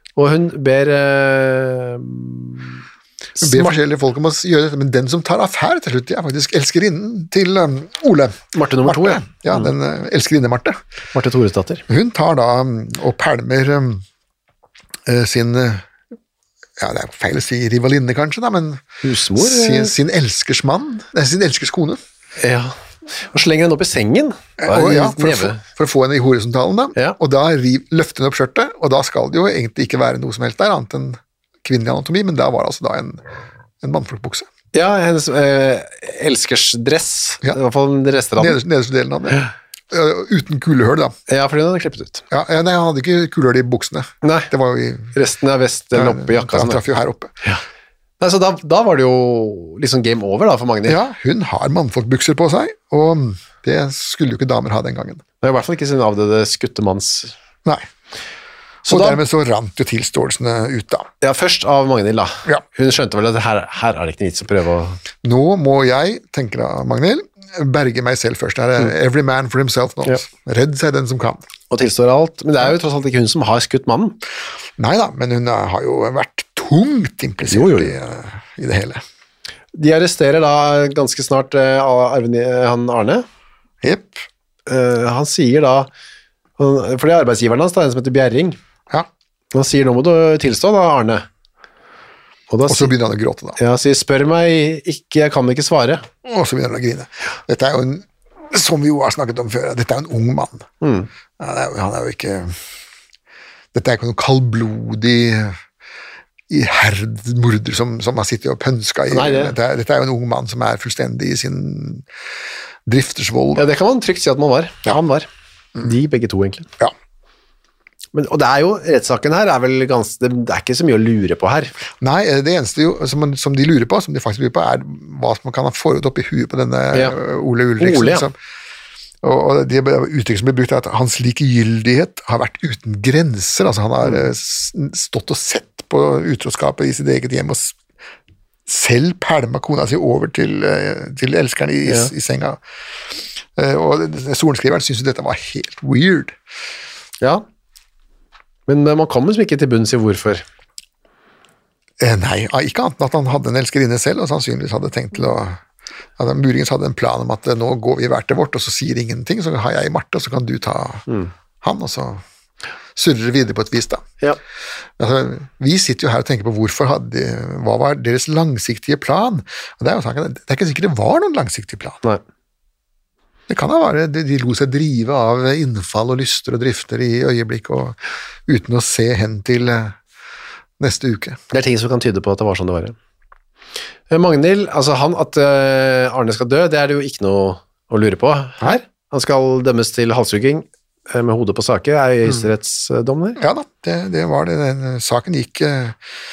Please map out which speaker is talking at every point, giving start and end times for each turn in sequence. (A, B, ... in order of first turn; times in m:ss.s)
0:00.2-0:02.8 A
0:03.4-0:03.8 A
0:03.4-0:10.8 B
0:08.5-0:09.7 A
0:11.1-0:11.8 A
0:11.9-0:14.0 B
0:15.1-0:15.9 B
0:16.8-0:18.8 B
0:19.0-0:19.9 A
0:19.4-0:22.0 B
0:22.4-0:25.6 A
0:24.6-0:33.2 B
0:33.8-0:34.5 B
0:34.7-0:38.6 A
0:38.4-0:41.2 B
0:41.3-0:42.2 A
0:42.3-0:45.1 B
0:44.2-0:44.5 A
0:45.1-0:46.8 A
0:45.9-0:47.4 B
0:48.2-0:51.0 A
0:50.8-0:55.2 B
0:55.4-0:57.3 A
0:58.9-0:59.2 A
0:58.9-1:01.1 B
1:01.2-1:05.0 A
1:05.2-1:11.5 B
1:11.7-1:14.2 A
1:14.8-1:19.0 B
1:17.5-1:18.0 A
1:19.7-1:23.3 A
1:23.8-1:24.3 B
1:24.7-1:25.9 A
1:26.6-1:28.6 A
1:29.5-1:31.3 A
1:32.5-1:32.9 A
1:32.7-1:33.6 B
1:33.6-1:36.1 A
1:36.2-1:40.7 B
1:40.8-1:41.1 A
1:41.4-1:42.6 B
1:43.7-1:45.6 B
1:46.5-1:52.1 B
1:49.1-1:49.6 A
1:52.9-1:53.7 B
1:53.6-1:55.3 A
1:55.8-1:56.7 A
1:58.1-2:01.7 A
2:02.0-2:08.4 B
2:07.8-2:08.3 A
2:09.2-2:17.8 B
2:18.7-2:26.4 B
2:21.9-2:22.1 A
2:28.7-2:30.4 A
2:32.0-2:35.6 B
2:36.2-2:41.1 B
2:41.6-2:42.2 B
2:43.0-2:44.0 B
2:45.0-2:52.0 B
2:53.5-3:00.0 B
3:00.8-3:01.4 B
3:01.5-3:03.0 A
3:04.1-3:13.4 A
3:13.4-3:16.0 B